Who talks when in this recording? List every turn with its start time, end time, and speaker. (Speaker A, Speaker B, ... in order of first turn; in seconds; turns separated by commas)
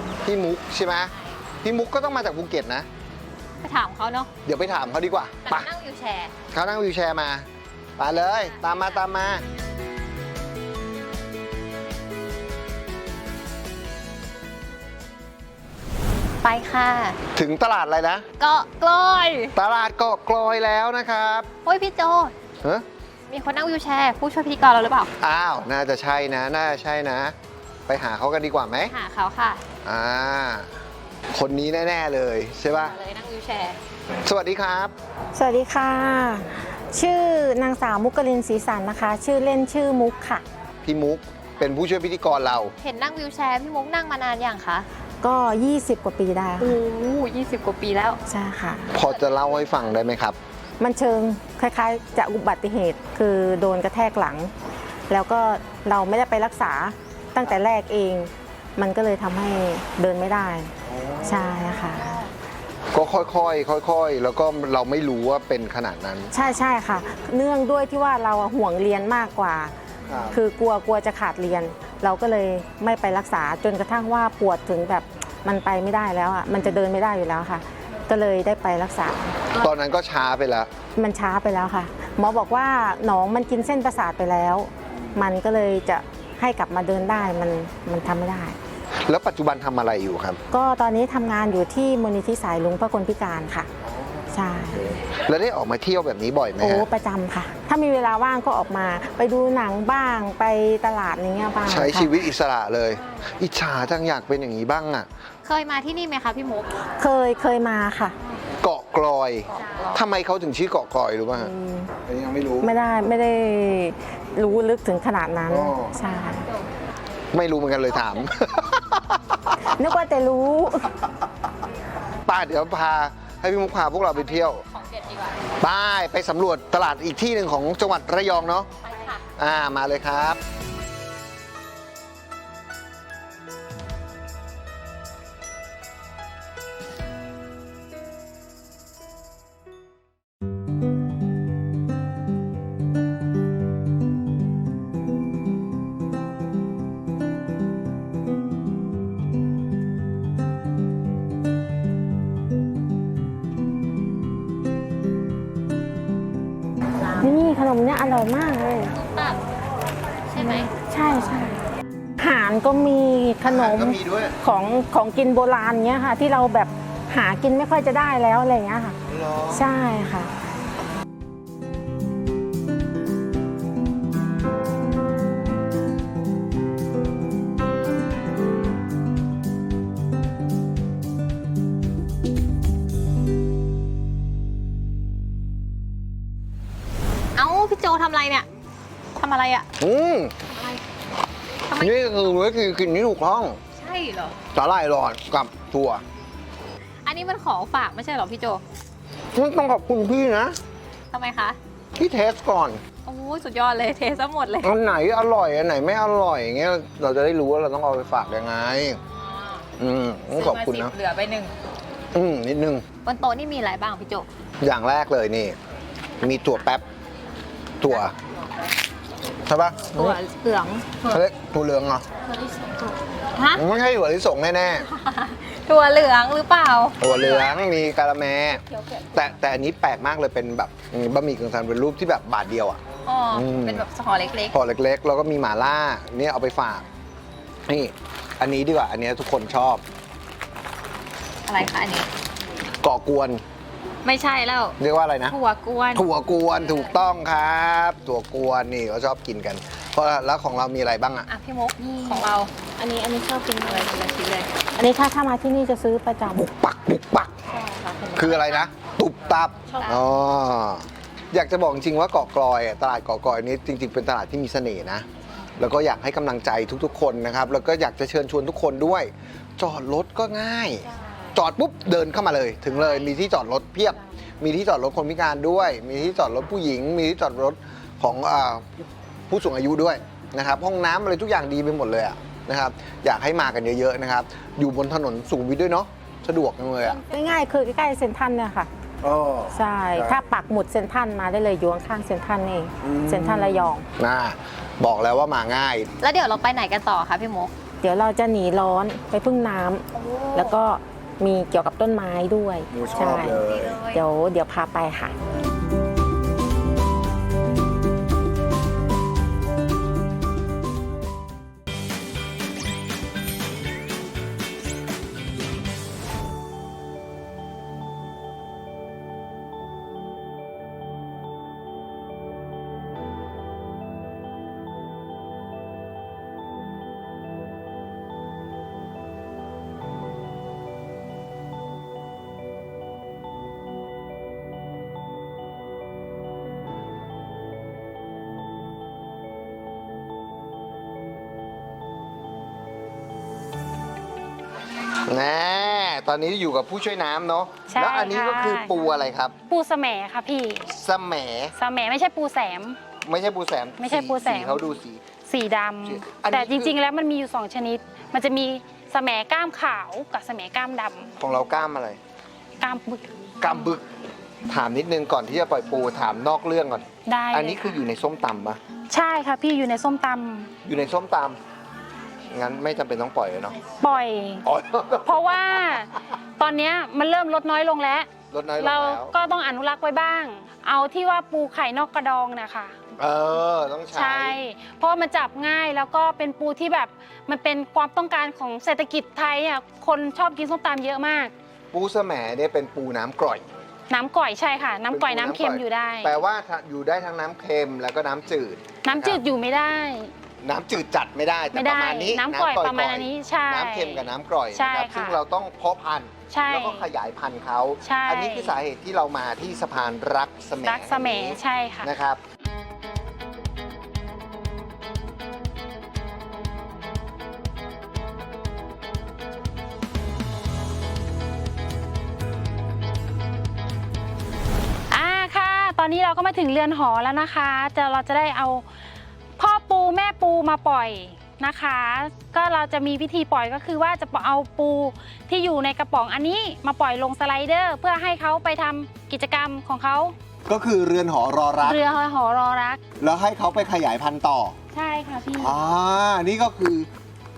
Speaker A: 0.2-2.9, Speaker B: 1.1-1.4, Speaker B: 3.6-4.3, Speaker A: 4.5-5.7, Speaker B: 5.5-6.3, Speaker A: 6.5-9.4, Speaker B: 8.4-9.0, Speaker B: 16.4-17.2, Speaker A: 17.4-18.3, Speaker B: 18.4-19.6, Speaker A: 19.6-21.5, Speaker B: 21.7-22.3, Speaker B: 23.3-25.1, Speaker A: 25.2-27.4, Speaker A: 27.9-28.9, Speaker B: 28.9-29.6, Speaker A: 29.8-30.7, Speaker A: 31.3-32.9, Speaker B: 32.9-33.8, Speaker A: 34.2-35.0, Speaker C: 35.4-40.4, Speaker A: 40.9-42.7, Speaker B: 42.8-44.9, Speaker C: 45.2-46.8, Speaker B: 46.6-48.2, Speaker C: 48.3-48.9, Speaker A: 48.9-50.4, Speaker C: 50.8-54.5, Speaker C: 55.1-62.2, Speaker A: 60.9-61.7, Speaker A: 62.9-66.3, Speaker C: 66.3-69.8, Speaker A: 70.1-70.4, Speaker C: 70.3-79.5, Speaker A: 79.5-80.7, Speaker C: 81.0-88.6, Speaker A: 89.1-90.4, Speaker C: 90.5-93.7, Speaker A: 93.8-96.9, Speaker C: 94.3-94.9, Speaker C: 96.6-102.1, Speaker A: 101.7-105.1, Speaker B: 105.5-106.9, Speaker C: 107.0-108.2, Speaker A: 108.6-111.5, Speaker B: 109.5-110.0, Speaker C: 111.3-111.9, Speaker A: 112.0-112.7, Speaker C: 112.6-116.5, Speaker A: 115.5-116.0, Speaker B: 116.0-116.5, Speaker A: 117.3-119.8, Speaker C: 119.7-120.9, Speaker A: 122.3-124.6, Speaker B: 124.2-125.4, Speaker A: 125.6-128.7, Speaker B: 128.8-129.3, Speaker A: 129.4-130.4, Speaker C: 157.2-158.9, Speaker B: 158.9-159.4, Speaker B: 160.3-160.7, Speaker C: 160.4-161.6, Speaker C: 162.2-169.0, Speaker A: 163.5-164.3, Speaker A: 169.1-169.7, Speaker C: 169.5-170.3, Speaker B: 187.4-188.5, Speaker B: 189.2-189.7, Speaker A: 189.8-190.3, Speaker B: 190.5-190.8, Speaker B: 191.7-191.9, Speaker A: 191.8-193.6, Speaker B: 193.8-194.4, Speaker A: 194.5-196.0, Speaker B: 197.1-198.6, Speaker A: 199.3-200.6, Speaker B: 201.1-201.6, Speaker A: 202.0-202.8, Speaker B: 203.1-204.7, Speaker A: 204.6-209.0, Speaker B: 209.1-209.7, Speaker A: 209.8-210.9, Speaker B: 210.3-211.5, Speaker A: 212.1-212.9, Speaker B: 213.0-214.3, Speaker A: 214.6-215.6, Speaker A: 216.2-216.8, Speaker B: 216.3-216.6, Speaker A: 217.8-218.1, Speaker A: 219.5-220.2, Speaker B: 219.9-221.2, Speaker A: 221.1-222.0, Speaker B: 222.5-223.6, Speaker A: 223.5-224.9, Speaker B: 224.9-227.6, Speaker A: 227.0-228.6, Speaker B: 228.7-229.3, Speaker A: 229.1-232.8, Speaker B: 233.1-234.6, Speaker A: 233.3-233.8, Speaker A: 234.5-236.9, Speaker A: 237.7-239.8, Speaker B: 241.5-242.1, Speaker A: 242.8-243.4, Speaker B: 244.0-244.8, Speaker A: 244.8-245.4, Speaker B: 245.3-246.1, Speaker A: 245.9-251.3, Speaker B: 251.3-252.7, Speaker C: 252.8-253.9, Speaker B: 253.5-254.5, Speaker C: 254.8-256.5, Speaker A: 256.3-257.4, Speaker B: 257.5-258.6, Speaker A: 258.1-265.1, Speaker A: 265.6-287.0, Speaker C: 287.0-288.7, Speaker A: 289.0-290.2, Speaker C: 289.5-293.8, Speaker A: 292.8-295.9, Speaker B: 296.0-297.5, Speaker C: 297.8-305.1, Speaker A: 302.7-303.8, Speaker B: 302.9-304.0, Speaker A: 345.0-349.3, Speaker D: 347.7-348.8, Speaker D: 349.5-350.7, Speaker A: 350.7-351.5, Speaker D: 351.6-352.8, Speaker A: 353.0-355.0, Speaker D: 353.8-354.6, Speaker D: 355.3-361.1, Speaker A: 355.9-356.8, Speaker A: 361.2-362.0, Speaker D: 362.6-363.1, Speaker A: 363.4-363.9, Speaker A: 364.5-368.6, Speaker D: 367.1-367.8, Speaker D: 368.9-370.5, Speaker A: 370.6-371.4, Speaker A: 372.3-373.6, Speaker D: 373.8-374.5, Speaker A: 374.4-375.4, Speaker D: 375.0-382.8, Speaker A: 378.3-379.1, Speaker A: 383.0-384.4, Speaker D: 383.9-391.3, Speaker A: 391.7-393.4, Speaker D: 393.9-396.2, Speaker A: 394.9-399.2, Speaker D: 398.8-400.1, Speaker A: 400.4-412.2, Speaker D: 401.5-405.2, Speaker D: 406.3-406.9, Speaker D: 407.8-408.6, Speaker D: 410.6-411.9, Speaker D: 424.9-428.6, Speaker D: 429.4-440.1, Speaker A: 440.5-441.8, Speaker D: 441.6-442.8, Speaker A: 443.0-444.6, Speaker D: 444.7-445.6, Speaker A: 445.3-446.9